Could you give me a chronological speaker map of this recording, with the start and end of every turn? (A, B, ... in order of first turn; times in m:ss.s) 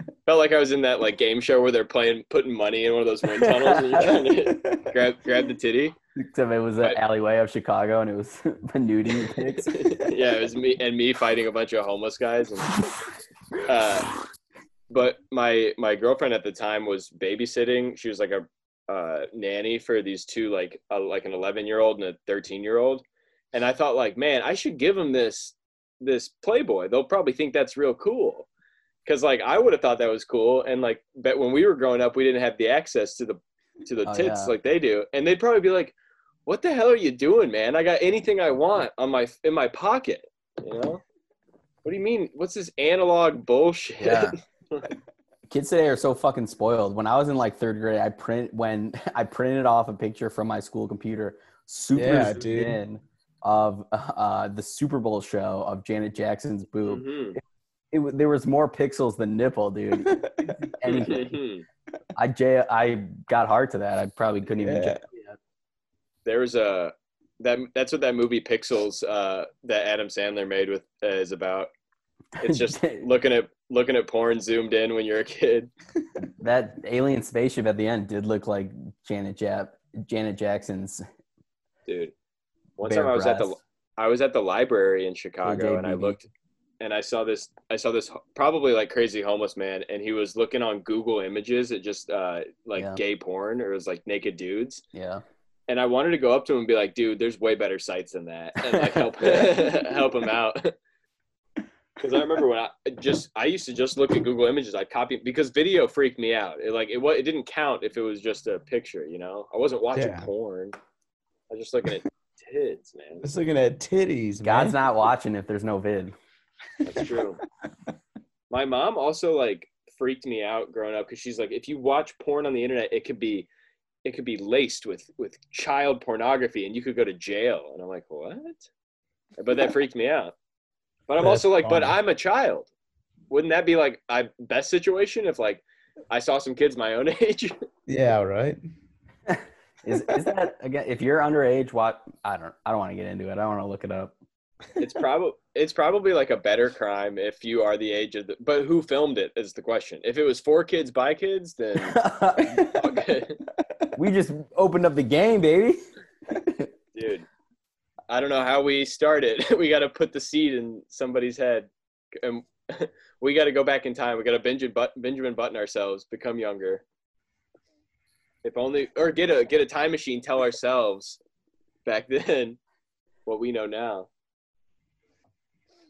0:00.2-0:06.0 A
0:03.5-0:04.2 B
0:06.2-0:10.0 B
0:09.2-0:12.8 A
0:13.6-0:14.1 A
0:14.9-0:28.5 A
0:29.0-0:41.0 A
0:34.0-0:34.5 B
0:41.8-0:44.9 A
0:44.0-0:44.3 B
0:45.5-0:57.4 B
0:51.9-0:52.8 C
0:56.8-0:57.4 A
0:57.9-1:01.3 B
0:59.9-1:00.5 C
1:00.8-1:01.6 A
1:02.2-1:05.4 B
1:04.6-1:05.0 C
1:06.2-1:11.7 A
1:12.4-1:15.7 A
1:12.4-1:13.1 B
1:16.4-1:21.0 B
1:21.9-1:22.1 A
1:22.8-1:26.3 A
1:22.8-1:23.5 B
1:25.4-1:26.2 B
1:26.8-1:34.8 A
1:34.9-1:35.2 B
1:35.7-1:40.7 A
1:38.6-1:39.6 B
1:42.0-1:50.8 A
1:49.9-1:50.3 C
1:51.5-1:53.2 A
1:53.2-1:54.8 C
1:54.4-1:56.1 B
1:56.8-1:57.4 A
1:58.5-2:03.5 A
2:04.0-2:08.7 A
2:09.4-2:10.3 A
2:11.1-2:12.7 A
2:11.2-2:12.0 C
2:13.3-2:17.6 A
2:17.9-2:18.6 C
2:19.3-2:24.1 B
2:24.8-2:33.4 A
2:31.8-2:32.8 B
2:33.9-2:36.7 B
2:36.9-2:37.3 A
2:38.1-2:46.8 A
2:48.4-2:51.2 A
2:51.8-2:52.6 A
2:53.2-2:54.1 A